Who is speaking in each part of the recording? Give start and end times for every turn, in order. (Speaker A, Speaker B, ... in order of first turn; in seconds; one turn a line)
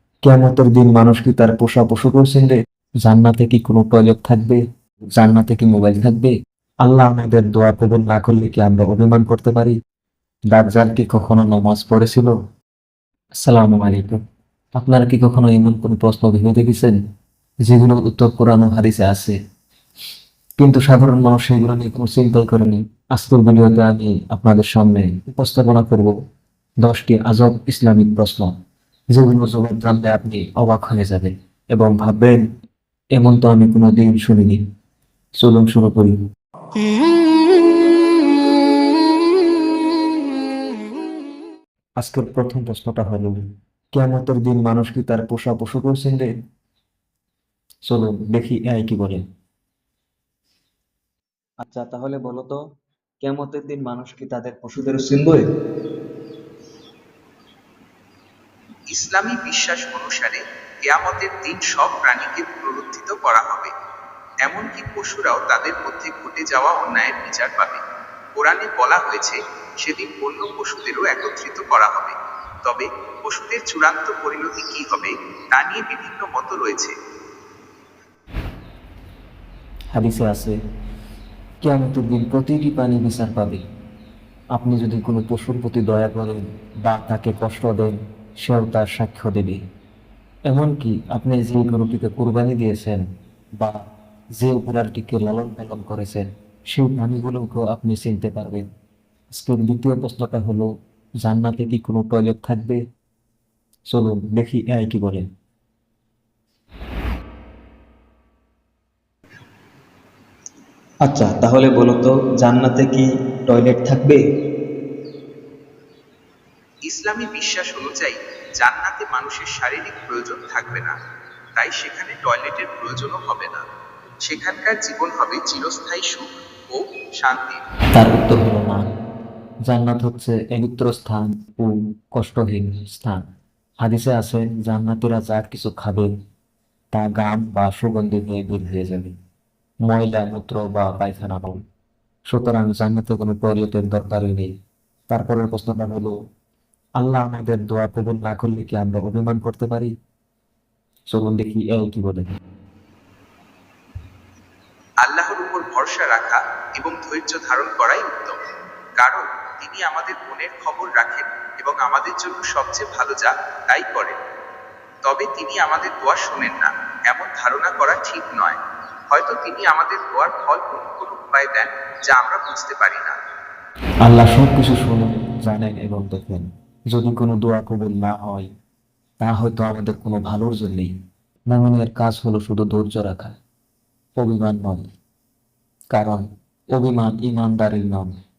Speaker A: 0.2-4.6
Speaker A: 5.2-9.7
Speaker A: 10.5-12.3
Speaker A: 13.4-14.2
Speaker A: 14.8-17.0
Speaker A: 17.6-19.4
Speaker A: 20.6-26.1
Speaker A: 26.8-28.5
Speaker A: 29.1-32.5
Speaker A: 33.1-34.6
Speaker A: 35.4-36.2
Speaker A: 42.0-43.4
Speaker A: 43.9-46.3
Speaker A: 47.9-49.2
Speaker B: 51.7-52.4
Speaker B: 53.6-54.6
Speaker C: 58.9-63.7
Speaker C: 64.4-67.8
Speaker C: 68.3-76.9
Speaker A: 79.9-80.5
Speaker A: 81.6-83.6
Speaker A: 84.5-89.6
Speaker A: 90.5-93.0
Speaker A: 94.4-98.7
Speaker A: 99.3-100.7
Speaker A: 101.2-102.8
Speaker A: 103.9-105.2
Speaker B: 111.3-113.0
Speaker B: 113.7-114.0
Speaker C: 116.9-120.9
Speaker C: 121.5-123.6
Speaker C: 124.2-127.6
Speaker A: 127.9-128.8
Speaker A: 129.7-133.2
Speaker A: 133.8-136.1
Speaker A: 136.9-139.1
Speaker A: 139.8-141.6
Speaker A: 142.3-144.5
Speaker A: 145.1-146.1
Speaker A: 147.0-149.9
Speaker A: 151.1-152.3
Speaker C: 155.0-158.4
Speaker C: 159.0-164.2
Speaker C: 165.0-168.6
Speaker C: 169.1-173.2
Speaker A: 174.0-178.5
Speaker A: 179.2-180.9
Speaker A: 181.5-183.3
Speaker A: 184.2-184.9
Speaker A: 185.9-188.1